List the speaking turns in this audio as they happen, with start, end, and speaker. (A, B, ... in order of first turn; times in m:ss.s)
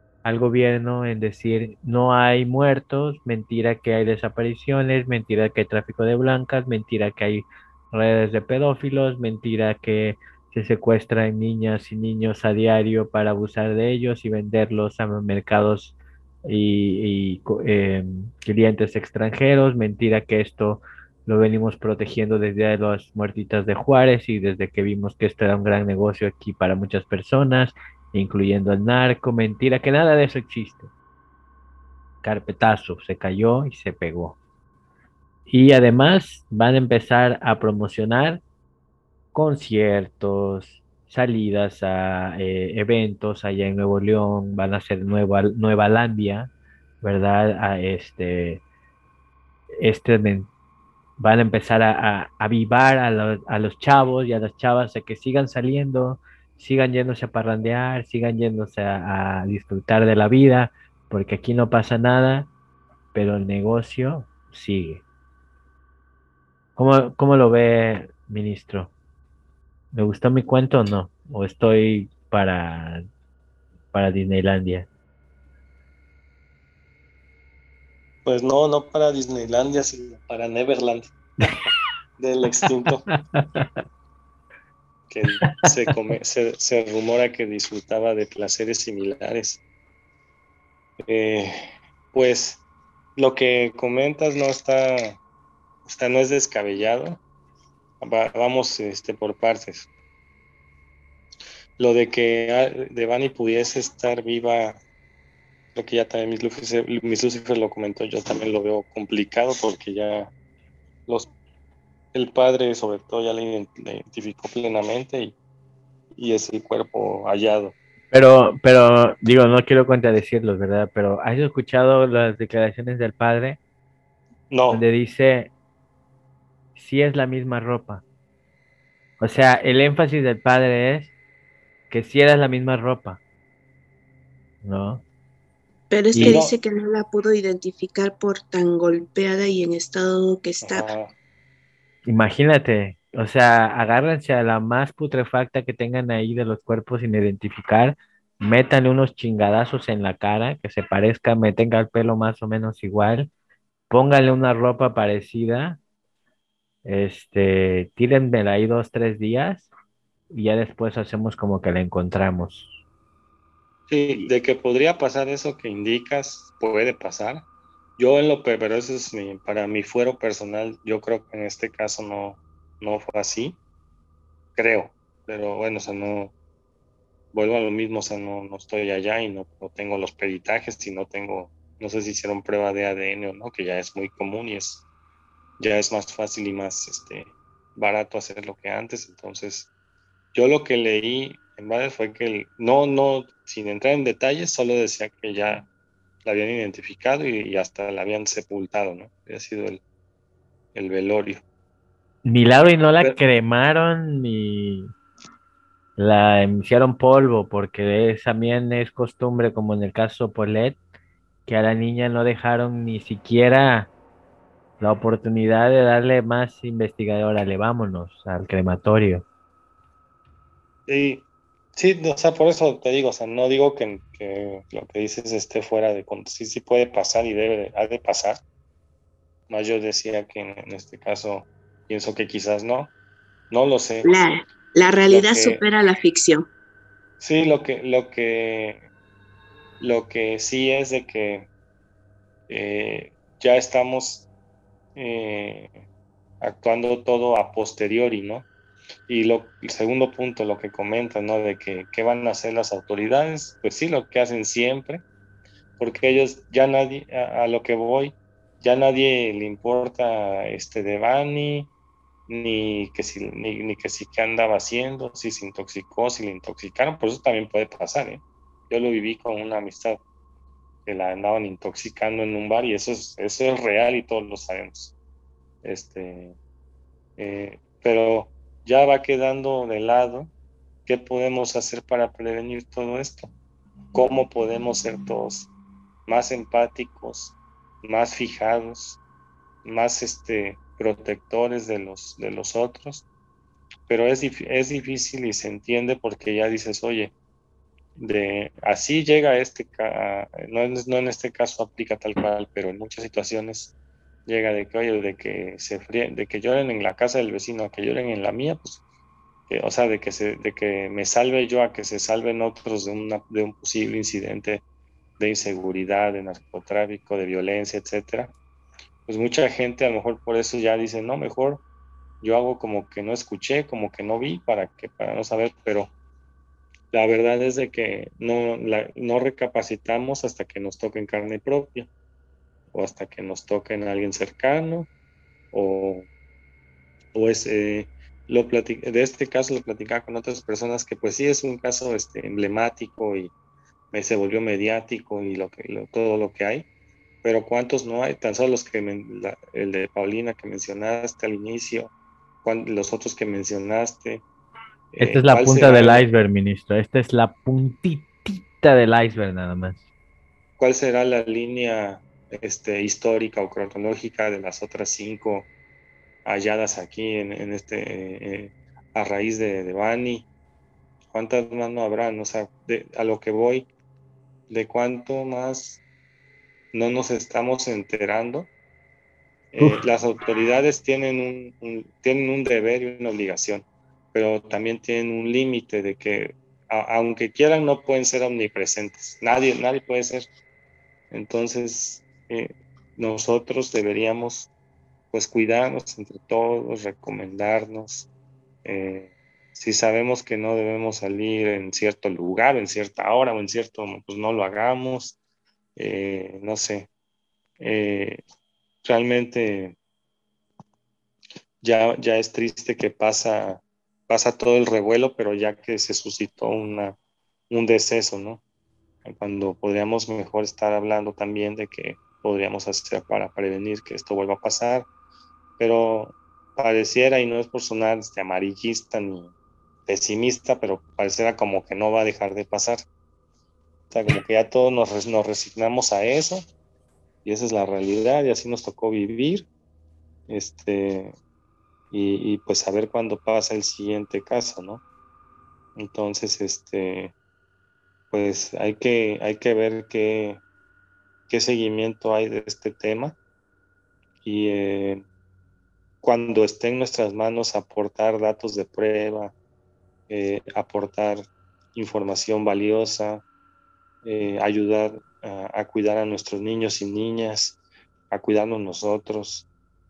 0:00.2-0:30.9 A
0:32.2-0:34.4 A
0:35.5-0:38.4 A
0:39.3-0:46.5 A
0:47.0-0:48.6 A
0:49.8-0:50.5 A
0:51.2-1:02.5 A
1:03.1-1:05.0 A
1:06.8-1:08.9 A
1:09.9-1:13.0 A
1:13.9-1:14.9 A
1:18.2-1:21.1 B
1:22.2-1:23.0 B
1:23.1-1:23.7 A
1:25.1-1:29.6 B
1:31.1-1:31.6 B
1:32.1-1:32.6 B
1:33.2-1:35.2 B
1:35.8-1:37.2 B
1:38.0-1:39.9 B
1:41.8-1:44.8 B
1:45.7-1:50.3 B
1:52.1-1:55.3 B
1:56.2-1:57.7 B
1:58.1-2:03.6 A
2:04.5-2:04.8 B
2:04.7-2:05.5 A
2:06.8-2:08.0 A
2:09.2-2:11.1 A
2:11.9-2:13.2 A
2:14.6-2:15.0 A
2:15.9-2:20.9 C
2:16.1-2:16.4 A
2:16.2-2:16.5 B
2:20.6-2:21.1 B
2:22.0-2:33.3 A
2:33.9-2:35.8 A
2:36.8-2:39.7 A
2:40.3-2:42.7 A
2:43.9-2:47.4 B
2:48.0-2:53.6 B
2:54.5-2:56.3 B
2:57.3-3:04.8 B
3:05.6-3:09.7 B
3:10.3-3:15.6 B
3:16.2-3:19.8 B
3:20.7-3:21.4 B
3:22.2-3:24.9 A
3:26.0-3:30.8 A
3:31.4-3:33.9 A
3:34.8-3:39.2 A
3:40.9-3:41.2 B
3:41.8-3:48.4 B
3:49.5-3:52.9 B
3:53.5-3:54.2 B
3:54.0-3:56.5 C
3:55.1-3:55.6 B
3:57.2-3:58.8 B
3:59.8-4:01.5 B
4:02.5-4:04.3 B
4:04.9-4:05.8 B
4:06.4-4:08.4 B
4:09.1-4:15.0 B
4:15.8-4:21.7 B
4:22.3-4:30.0 B
4:30.8-4:34.9 B
4:35.6-4:36.4 B
4:37.2-4:40.3 B
4:40.8-4:43.3 B
4:43.9-4:45.5 B
4:46.1-4:49.0 B
4:49.6-4:53.0 B
4:53.9-4:57.1 B
4:58.0-5:03.7 B
5:04.2-5:08.8 B
5:09.5-5:14.6 B
5:15.2-5:18.3 B
5:19.1-5:21.6 B
5:22.2-5:25.9 B
5:26.9-5:31.9 B
5:32.7-5:34.9 B
5:35.5-5:36.1 B
5:37.1-5:43.3 B
5:43.9-5:46.7 B
5:47.2-5:51.9 B
5:52.4-5:54.2 B
5:54.9-5:56.1 B
5:55.0-5:59.8 A
6:00.6-6:05.5 B
6:06.2-6:10.3 B
6:11.1-6:13.7 B
6:14.5-6:15.8 B
6:16.7-6:18.5 B
6:19.5-6:30.3 B
6:31.1-6:34.5 B
6:35.1-6:38.1 B
6:38.6-6:45.2 B
6:45.8-6:46.9 B
6:47.6-6:48.2 B
6:48.8-6:49.8 B
6:51.6-6:57.0 B
6:57.5-6:58.4 B
6:59.0-7:04.9 B
7:05.6-7:09.3 B
7:09.8-7:12.8 B
7:13.9-7:16.4 B
7:17.2-7:19.5 B
7:20.3-7:21.2 B
7:21.9-7:24.8 B
7:25.8-7:27.1 B
7:28.1-7:30.4 B
7:31.3-7:33.2 B
7:34.2-7:35.0 B
7:36.0-7:39.3 B
7:40.1-7:43.2 B
7:44.0-7:47.6 B
7:48.1-7:49.5 B